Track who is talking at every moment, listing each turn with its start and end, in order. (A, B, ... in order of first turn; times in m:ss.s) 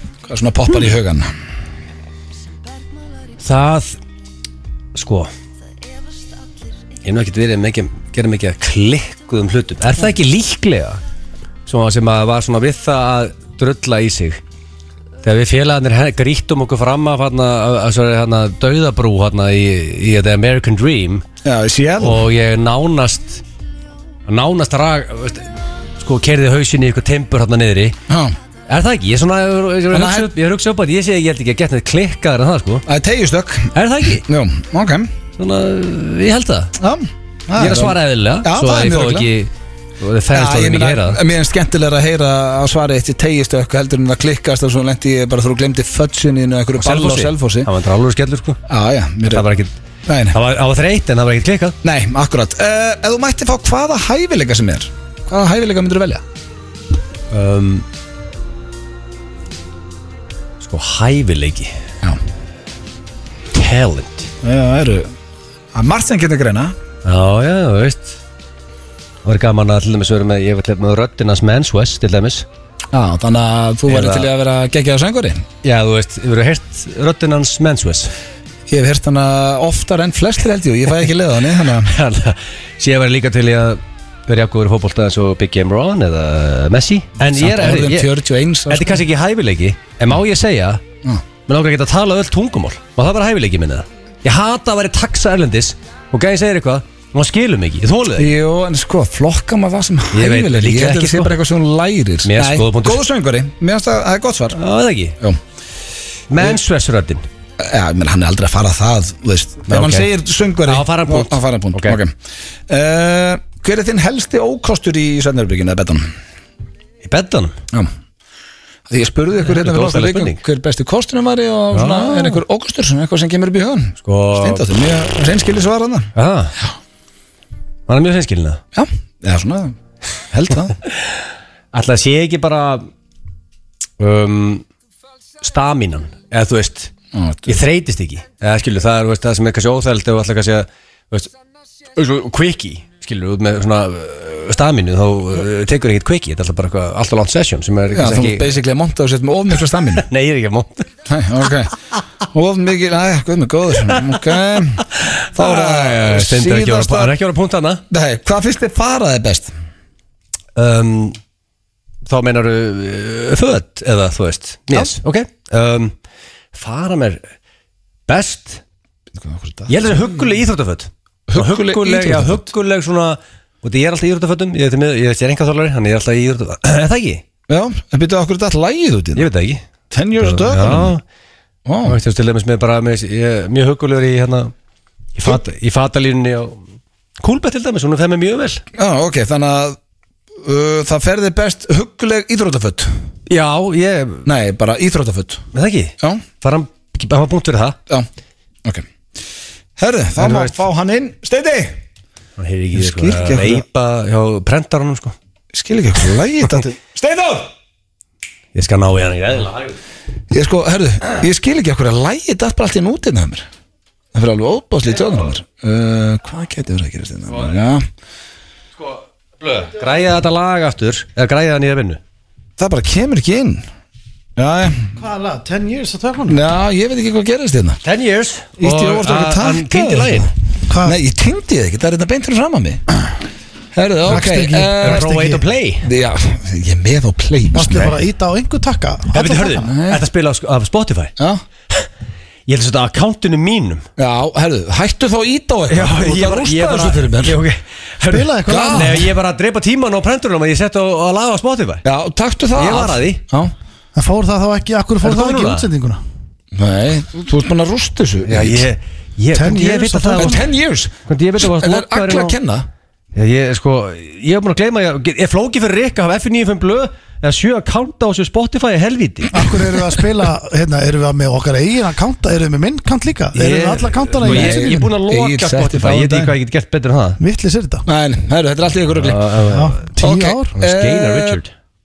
0:00.3-0:01.3 A
0:03.4-0:04.0 B
0:05.0-0:05.3 B
0:07.0-0:11.0 B
0:11.7-0:14.4 B
0:15.2-0:21.2 B
0:21.4-0:22.2 A
0:22.0-0:23.4 B
0:24.3-0:25.5 B
0:26.0-0:28.0 B
0:28.1-0:28.4 A
0:28.7-0:32.8 B
0:29.9-0:30.3 A
0:32.9-0:35.1 A
0:33.8-0:34.2 B
0:35.4-0:36.7 B
0:36.8-0:39.3 A
0:37.6-0:39.5 B
0:40.0-0:41.2 B
0:40.3-0:47.7 A
0:46.8-0:48.6 B
0:48.7-0:49.4 A
0:49.3-0:49.7 B
0:50.1-0:50.4 A
0:50.3-0:51.8 B
0:51.8-0:56.2 A
0:57.3-0:57.8 B
1:00.6-1:01.7 B
1:03.5-1:04.3 B
1:04.4-1:05.1 A
1:05.7-1:06.7 A
1:07.0-1:08.2 B
1:09.2-1:12.5 B
1:12.9-1:15.4 A
1:13.9-1:14.3 B
1:15.6-1:18.1 B
1:18.7-1:21.9 A
1:21.9-1:28.1 B
1:27.3-1:29.0 A
1:28.7-1:30.8 B
1:31.5-1:38.3 B
1:38.2-1:44.6 A
1:40.1-1:41.3 B
1:42.2-1:43.0 B
1:44.6-1:45.2 B
1:46.3-1:47.2 B
1:47.6-1:52.1 A
1:49.7-1:50.1 B
1:50.6-1:52.0 B
1:52.7-1:56.1 A
1:57.0-1:57.6 B
1:58.9-2:06.1 A
1:59.4-2:00.4 B
2:01.7-2:02.4 B
2:04.0-2:04.6 B
2:06.2-2:06.6 B
2:07.9-2:08.6 B
2:08.7-2:09.8 A
2:10.3-2:10.8 A
2:10.9-2:11.1 B
2:11.7-2:12.9 B
2:14.0-2:14.6 B
2:15.4-2:16.9 B
2:17.1-2:17.6 A
2:17.5-2:21.3 B
2:22.0-2:28.6 B
2:27.9-2:30.0 A
2:30.0-2:30.9 B
2:31.1-2:31.7 A
2:32.3-2:34.8 A
2:34.8-2:37.8 B
2:35.4-2:37.1 A
2:37.9-2:39.5 A
2:40.6-2:41.2 B
2:42.1-2:45.9 B
2:46.5-2:47.2 B
2:48.1-2:48.6 B
2:49.2-2:50.0 A
2:49.7-2:57.2 B
2:51.3-2:52.5 A
2:57.5-2:59.3 A
2:59.2-2:59.6 B
2:59.9-3:01.0 A
3:00.2-3:01.0 B
3:01.7-3:02.0 A
3:01.8-3:04.5 B
3:05.2-3:06.6 B
3:07.2-3:08.6 B
3:08.8-3:09.8 A
3:10.4-3:12.9 A
3:13.3-3:14.3 B
3:14.2-3:15.4 A
3:15.5-3:17.8 B
3:19.8-3:21.8 A
3:20.2-3:20.6 B
3:22.4-3:25.2 B
3:22.8-3:23.6 A
3:25.5-3:27.5 A
3:28.6-3:29.8 B
3:30.3-3:33.5 A
3:34.1-3:37.9 A
3:38.8-3:42.0 B
3:42.6-3:43.6 A
3:44.4-3:44.9 A
3:45.0-3:46.4 C
3:46.3-3:47.8 A
3:47.8-3:50.3 B
3:48.6-3:50.3 A
3:50.7-3:51.0 C
3:50.8-3:52.8 A
3:53.8-3:55.1 A
3:54.0-3:55.4 C
3:54.8-3:55.9 B
3:55.8-3:58.0 A
3:57.5-3:59.7 C
3:59.1-4:01.1 B
3:59.6-4:00.0 A
4:02.5-4:03.8 B
4:04.0-4:07.4 A
4:05.7-4:11.8 B
4:08.0-4:09.1 C
4:08.5-4:09.1 A
4:11.8-4:13.5 A
4:12.6-4:13.2 B
4:14.0-4:16.0 C
4:15.0-4:15.7 B
4:16.5-4:18.6 A
4:18.3-4:20.4 B
4:19.3-4:20.5 C
4:20.2-4:22.7 A
4:21.1-4:22.4 B
4:23.2-4:29.3 B
4:29.3-4:34.9 C
4:33.4-4:37.2 B
4:34.2-4:36.4 A
4:37.2-4:37.8 C
4:37.9-4:39.2 A
4:39.0-4:39.8 B
4:39.5-4:40.5 C
4:40.0-4:41.4 A
4:40.6-4:41.5 B